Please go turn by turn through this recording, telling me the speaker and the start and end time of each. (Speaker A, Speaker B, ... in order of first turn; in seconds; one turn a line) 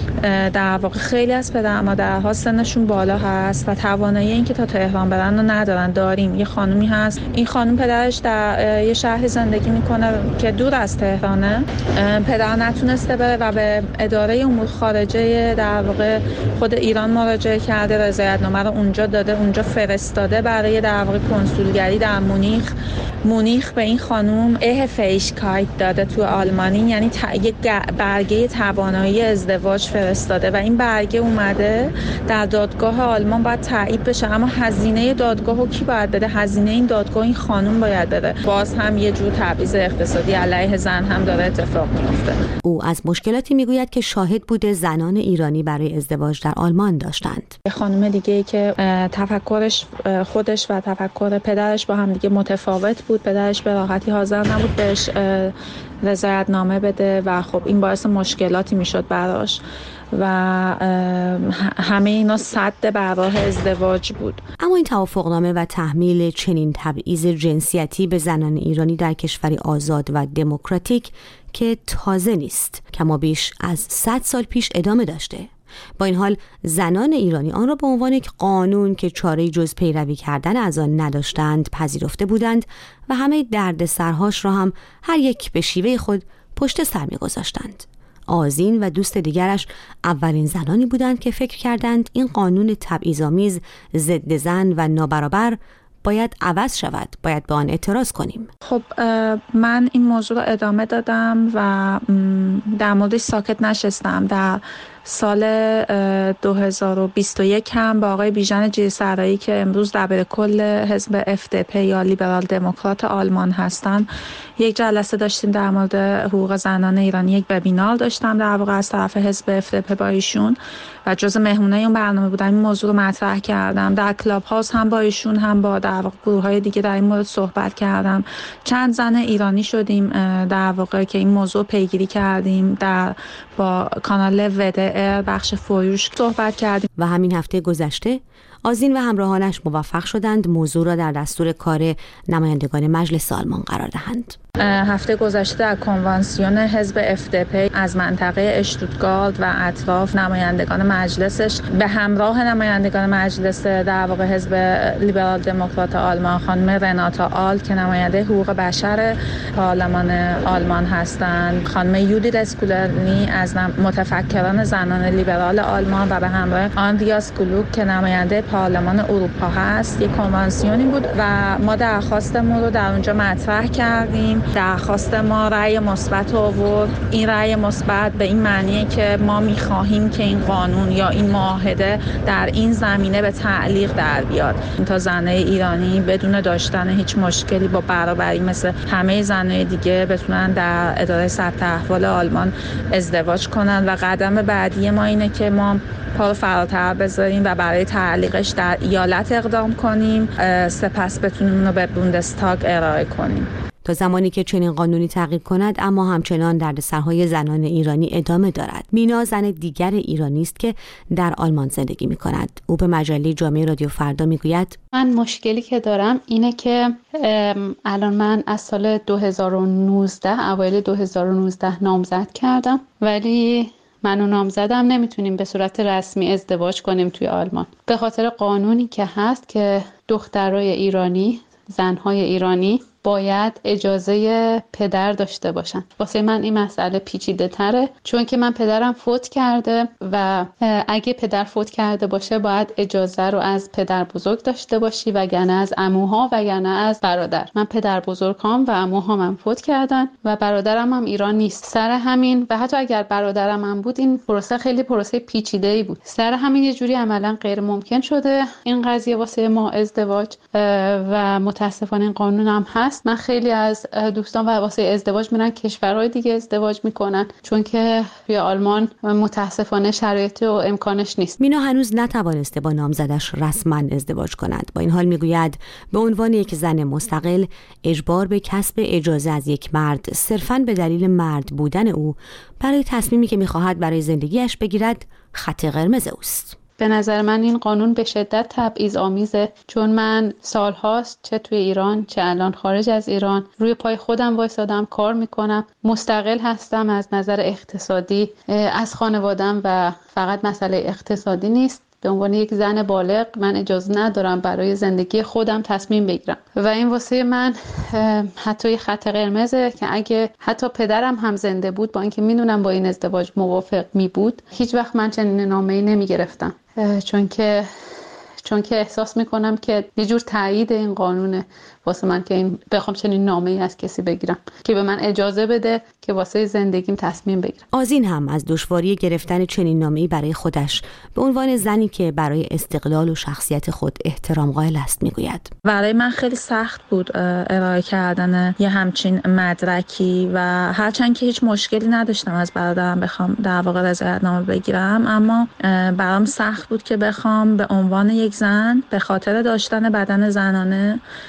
Speaker A: 0.2-22.7
Speaker A: 23.2-42.4
Speaker B: 42.6-47.5
Speaker A: 47.7-59.6
Speaker A: 60.1-64.4
Speaker B: 64.6-98.5
Speaker A: 98.6-136.9
Speaker B: 137.0-144.3
Speaker A: 144.6-203.5
Speaker B: 203.8-214.8
Speaker C: 214.9-271.4
Speaker B: 271.4-286.6
Speaker C: 286.8-317.7
Speaker C: 318.4-327.6
Speaker B: 327.7-335.5
Speaker A: 335.6-351.0